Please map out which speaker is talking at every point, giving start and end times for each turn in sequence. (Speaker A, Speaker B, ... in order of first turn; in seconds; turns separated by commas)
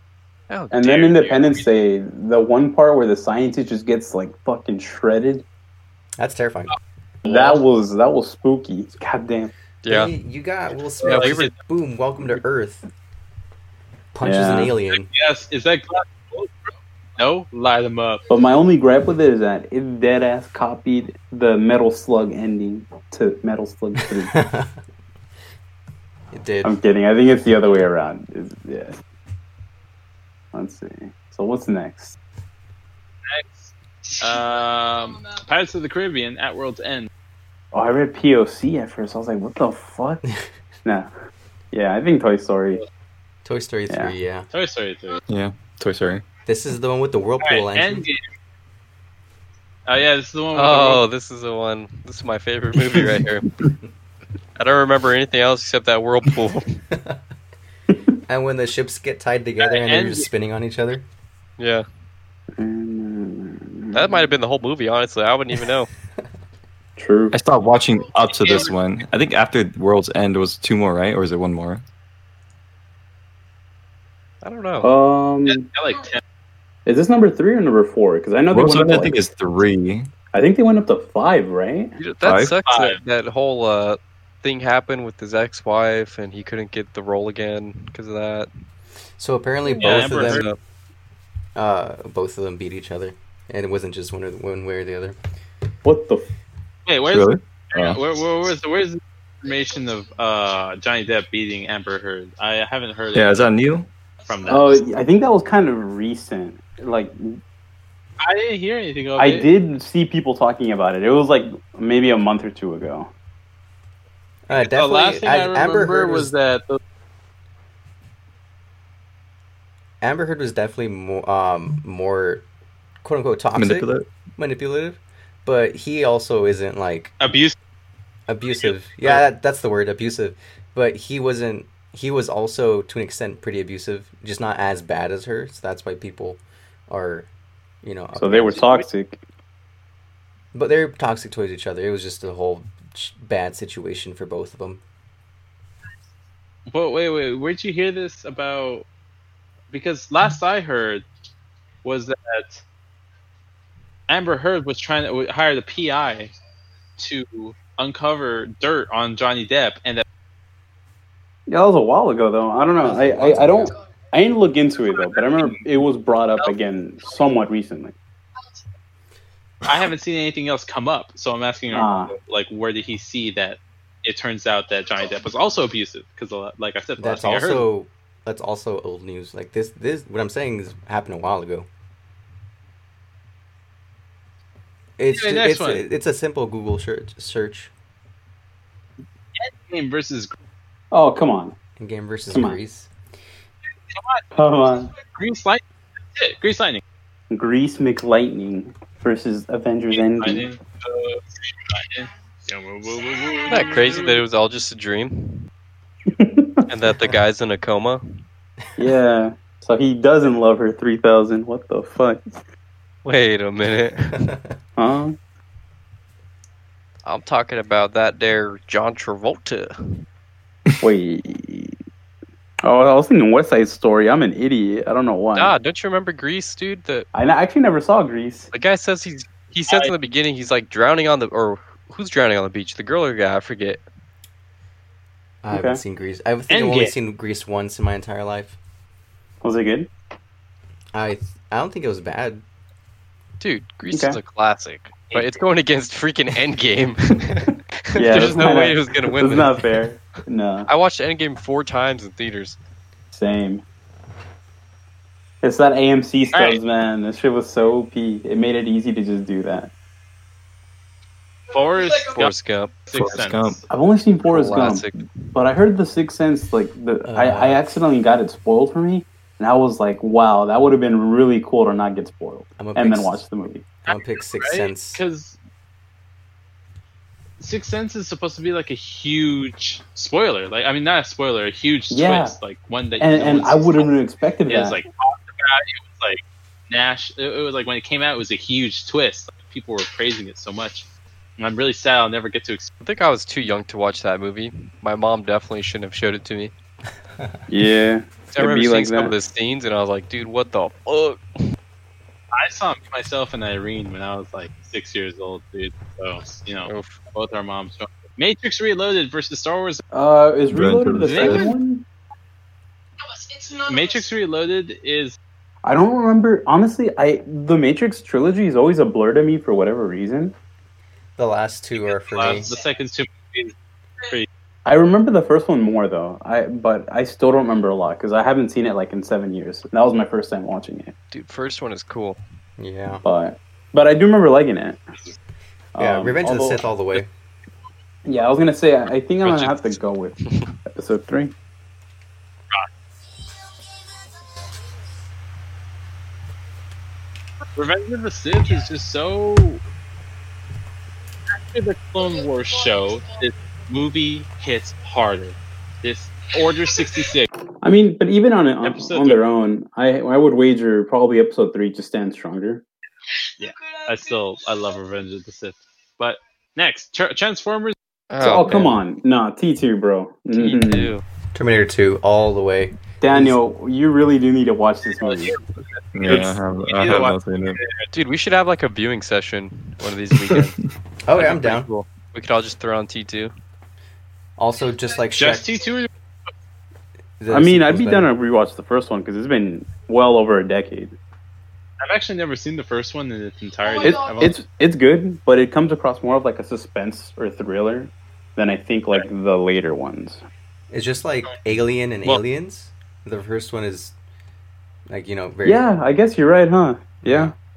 Speaker A: 0.5-1.4, Speaker B: 0.7-5.4, Speaker C: 1.0-1.4, Speaker D: 6.2-6.8, Speaker B: 7.2-9.5, Speaker C: 7.3-7.6, Speaker A: 9.8-10.1, Speaker D: 9.9-12.8, Speaker A: 11.0-11.5, Speaker C: 11.1-11.3, Speaker D: 14.1-15.1, Speaker B: 14.2-14.7, Speaker C: 15.1-18.2, Speaker B: 18.3-24.3, Speaker D: 24.2-24.8, Speaker D: 26.3-26.8, Speaker B: 26.6-29.0, Speaker B: 30.5-32.2, Speaker C: 33.2-37.1, Speaker E: 34.1-35.2, Speaker B: 37.7-40.2, Speaker B: 40.8-41.1, Speaker B: 41.7-42.8, Speaker D: 43.4-44.5, Speaker B: 43.9-44.1, Speaker C: 44.5-45.2, Speaker F: 45.3-46.2, Speaker D: 46.5-48.1, Speaker C: 47.4-48.3, Speaker C: 49.9-51.0, Speaker A: 50.5-53.5, Speaker A: 54.6-56.8, Speaker D: 56.9-57.2, Speaker D: 58.3-61.0, Speaker C: 59.6-60.3, Speaker A: 61.6-61.8, Speaker B: 62.6-64.2, Speaker A: 63.9-65.9, Speaker B: 67.0-67.3, Speaker F: 67.3-71.8, Speaker E: 68.0-68.7, Speaker C: 68.3-68.7, Speaker A: 74.4-74.9, Speaker B: 74.8-75.7, Speaker C: 75.5-76.2, Speaker B: 76.8-79.2, Speaker F: 78.5-80.1, Speaker B: 80.3-82.0, Speaker A: 82.0-88.5, Speaker F: 82.2-82.6, Speaker C: 82.7-83.0, Speaker D: 89.2-90.5, Speaker A: 89.8-90.6, Speaker C: 89.8-90.5, Speaker D: 91.5-95.2, Speaker B: 95.8-96.3, Speaker C: 96.9-103.4, Speaker F: 97.1-98.0, Speaker F: 103.1-103.9, Speaker C: 104.3-104.8, Speaker E: 104.3-104.8, Speaker B: 104.5-107.4, Speaker C: 108.2-109.5, Speaker B: 109.2-113.1, Speaker D: 114.5-116.3, Speaker C: 114.5-116.8, Speaker D: 120.0-122.5, Speaker D: 123.0-127.1, Speaker F: 123.5-124.1, Speaker C: 127.2-127.6, Speaker D: 128.3-137.3, Speaker C: 128.5-129.2, Speaker D: 137.8-138.8, Speaker B: 138.2-139.2, Speaker D: 140.5-144.8, Speaker C: 146.7-148.9, Speaker C: 149.7-151.0, Speaker C: 151.8-152.6, Speaker C: 154.1-156.3, Speaker C: 157.0-160.0, Speaker B: 161.5-167.9, Speaker D: 162.8-163.7, Speaker C: 165.1-165.6, Speaker C: 169.7-177.7, Speaker B: 171.7-172.1, Speaker E: 175.0-175.2, Speaker D: 177.0-181.7, Speaker D: 185.0-187.7, Speaker C: 185.1-185.8, Speaker C: 189.3-190.3, Speaker B: 190.9-191.5, Speaker D: 191.8-192.9, Speaker B: 192.3-192.6, Speaker C: 193.9-194.2, Speaker B: 194.3-194.9, Speaker C: 195.1-195.6, Speaker C: 196.1-196.8, Speaker B: 197.3-200.5, Speaker C: 199.9-204.2, Speaker E: 203.2-203.7, Speaker A: 203.5-205.5, Speaker B: 206.1-206.6, Speaker A: 206.7-208.2, Speaker B: 208.8-212.2, Speaker A: 213.0-214.3, Speaker D: 214.2-214.5, Speaker B: 214.8-215.2, Speaker A: 217.0-219.7, Speaker B: 220.8-221.8, Speaker B: 222.6-225.5, Speaker A: 225.3-227.1, Speaker B: 227.1-228.5, Speaker A: 228.5-233.8, Speaker D: 235.4-238.6, Speaker B: 235.5-235.8, Speaker C: 236.5-236.9, Speaker B: 239.4-239.9, Speaker D: 240.9-242.4, Speaker A: 243.4-249.7, Speaker B: 243.9-244.2, Speaker B: 247.9-250.7, Speaker A: 250.7-252.6, Speaker B: 253.1-253.6, Speaker B: 255.4-259.7, Speaker C: 256.3-256.6, Speaker C: 261.5-262.3, Speaker E: 261.5-262.2, Speaker A: 262.1-262.7, Speaker C: 262.9-263.6, Speaker F: 262.9-263.6, Speaker B: 263.7-273.7, Speaker A: 264.2-265.3, Speaker D: 267.1-267.6, Speaker D: 272.6-273.2, Speaker D: 273.8-275.0, Speaker C: 273.9-275.4, Speaker C: 277.4-283.9, Speaker B: 281.9-282.3, Speaker B: 283.0-284.8, Speaker C: 284.5-292.7, Speaker A: 292.8-296.5, Speaker B: 297.5-299.1, Speaker A: 298.3-301.2, Speaker C: 302.3-309.8, Speaker A: 306.6-307.0, Speaker B: 309.9-311.8, Speaker F: 310.5-311.5, Speaker C: 311.0-311.5, Speaker E: 313.0-314.1, Speaker C: 313.7-315.2, Speaker B: 315.6-320.3, Speaker D: 321.2-322.5, Speaker C: 321.9-324.3, Speaker E: 322.2-322.7, Speaker B: 324.6-330.9, Speaker A: 331.1-332.2, Speaker D: 332.6-333.0, Speaker B: 333.0-334.8, Speaker B: 335.8-336.6, Speaker D: 335.8-337.1, Speaker B: 338.0-341.3, Speaker A: 339.2-339.5, Speaker C: 339.2-339.5, Speaker A: 340.2-340.5, Speaker C: 347.6-349.6, Speaker C: 351.4-357.3, Speaker E: 352.0-353.1, Speaker E: 356.7-357.0, Speaker B: 357.6-362.6, Speaker C: 358.6-359.2, Speaker E: 363.4-364.3, Speaker C: 363.4-367.7, Speaker A: 368.1-368.8, Speaker B: 368.2-370.9, Speaker A: 370.3-371.0, Speaker D: 371.3-373.4, Speaker B: 373.0-375.4, Speaker C: 374.9-377.8, Speaker F: 375.9-377.6, Speaker B: 376.1-376.3, Speaker A: 377.9-380.6, Speaker D: 381.0-381.7, Speaker A: 381.1-383.3, Speaker D: 384.4-385.5, Speaker E: 384.7-385.3, Speaker C: 385.1-385.9, Speaker D: 387.2-388.1, Speaker B: 387.3-390.9, Speaker C: 391.8-394.4, Speaker E: 393.6-394.3, Speaker B: 393.8-400.2, Speaker D: 400.7-403.9, Speaker D: 404.9-405.6, Speaker B: 405.4-407.3, Speaker D: 407.0-407.3